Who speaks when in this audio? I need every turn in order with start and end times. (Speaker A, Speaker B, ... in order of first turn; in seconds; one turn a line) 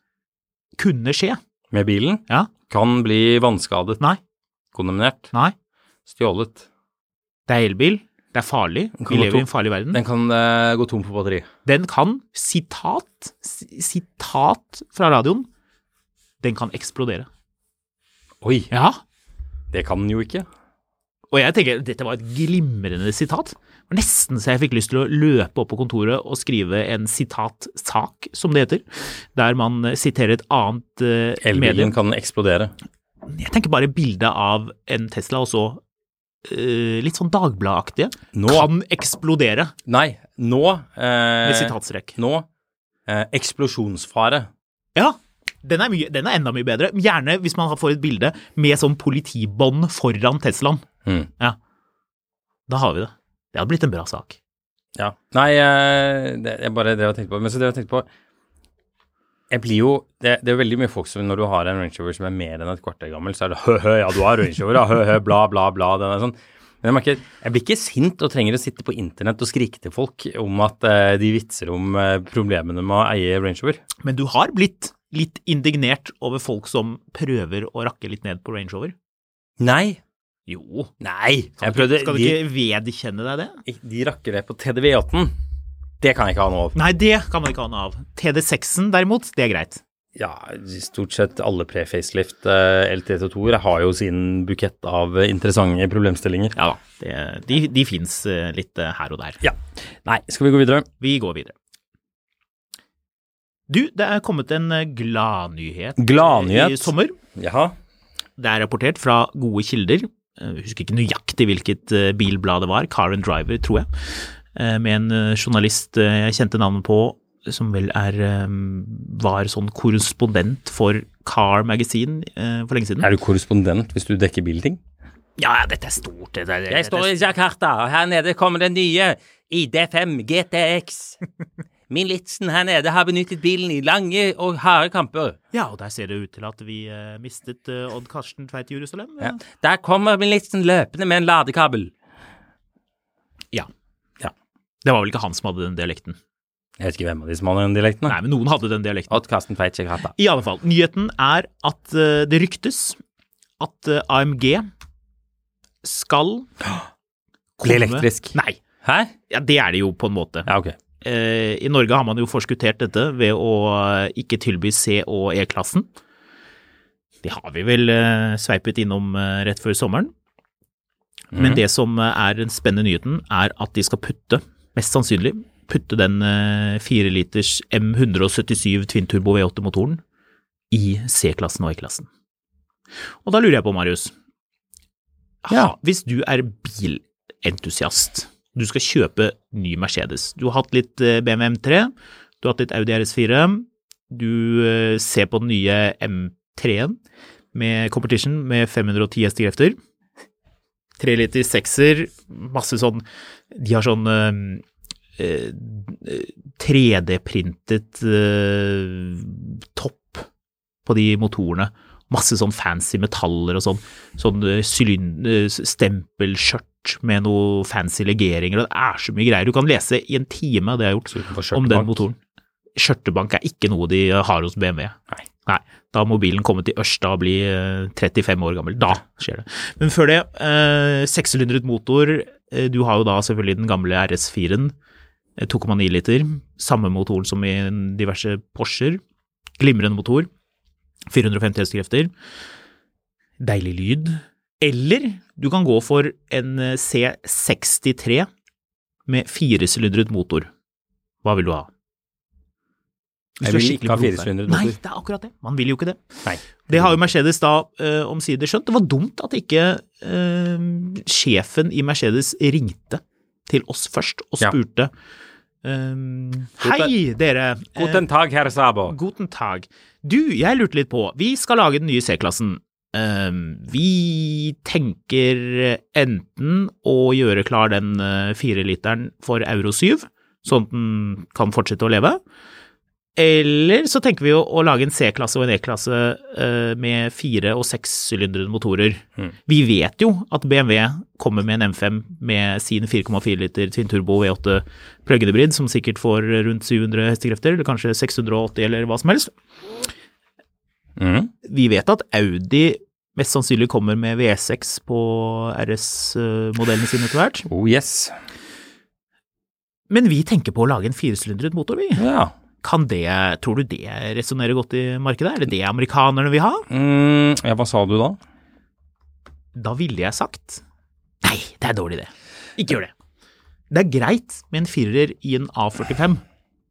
Speaker A: 0.8-1.4
Speaker B: 1.7-4.0
Speaker B: 4.7-5.3
Speaker B: 6.1-6.7
Speaker A: 7.5-10.0
Speaker B: 9.0-11.5
Speaker A: 11.7-15.5
Speaker A: 16.4-17.3
Speaker B: 18.4-18.7
Speaker A: 18.7-19.0
Speaker B: 19.7-20.5
Speaker A: 21.3-31.9
Speaker B: 31.4-32.7
Speaker A: 33.3-35.8
Speaker A: 36.4-39.7
Speaker B: 38.3-38.7
Speaker B: 39.9-42.5
Speaker A: 41.4-42.1
Speaker B: 43.1-44.5
Speaker A: 44.9-50.8
Speaker A: 52.7-54.4
Speaker B: 55.0-58.1
Speaker B: 59.5-73.8
Speaker A: 74.0-78.9
Speaker B: 79.6-80.0
Speaker A: 80.5-80.9
Speaker B: 81.0-82.4
Speaker A: 81.6-83.6
Speaker B: 83.6-85.3
Speaker B: 86.0-86.8
Speaker A: 86.7-89.8
Speaker B: 90.2-96.5
Speaker A: 96.5-99.4
Speaker B: 99.4-100.9
Speaker A: 101.0-101.5
Speaker A: 103.7-107.1
Speaker B: 106.0-107.8
Speaker A: 108.4-123.1
Speaker B: 123.0-124.8
Speaker A: 125.4-127.3
Speaker B: 126.7-131.2
Speaker B: 131.9-135.4
Speaker A: 135.5-139.4
Speaker B: 139.2-141.9
Speaker A: 144.8-146.2
Speaker B: 146.8-148.2
Speaker A: 148.1-149.2
Speaker B: 149.1-150.1
Speaker A: 150.1-153.0
Speaker A: 153.6-154.7
Speaker A: 155.8-156.6
Speaker A: 157.6-158.6
Speaker B: 157.6-159.1
Speaker A: 159.3-160.5
Speaker B: 160.4-160.8
Speaker A: 161.0-165.9
Speaker A: 167.2-170.1
Speaker B: 171.3-171.6
Speaker A: 171.3-180.0
Speaker A: 180.7-182.1
Speaker A: 183.2-184.1
Speaker A: 185.4-197.0
Speaker A: 197.5-199.8
Speaker A: 201.0-204.6
Speaker A: 205.2-210.2
Speaker A: 210.8-222.2
Speaker B: 221.1-222.0
Speaker A: 222.8-234.7
Speaker A: 235.4-239.0
Speaker A: 239.6-240.3
Speaker A: 241.1-242.1
Speaker A: 243.4-248.3
Speaker A: 249.1-250.5
Speaker A: 251.2-251.7
Speaker A: 253.4-256.0
Speaker B: 253.4-254.8
Speaker B: 256.2-257.0
Speaker A: 256.6-264.9
Speaker A: 265.6-268.0
Speaker B: 266.6-266.9
Speaker B: 267.8-268.9
Speaker A: 268.9-282.2
Speaker A: 283.1-299.3
Speaker B: 301.0-301.3
Speaker A: 301.4-307.5
Speaker B: 307.5-308.1
Speaker A: 309.9-312.0
Speaker B: 312.0-312.3
Speaker A: 312.6-316.6
Speaker B: 316.7-318.2
Speaker A: 319.5-320.6
Speaker A: 321.2-322.9
Speaker A: 323.7-326.2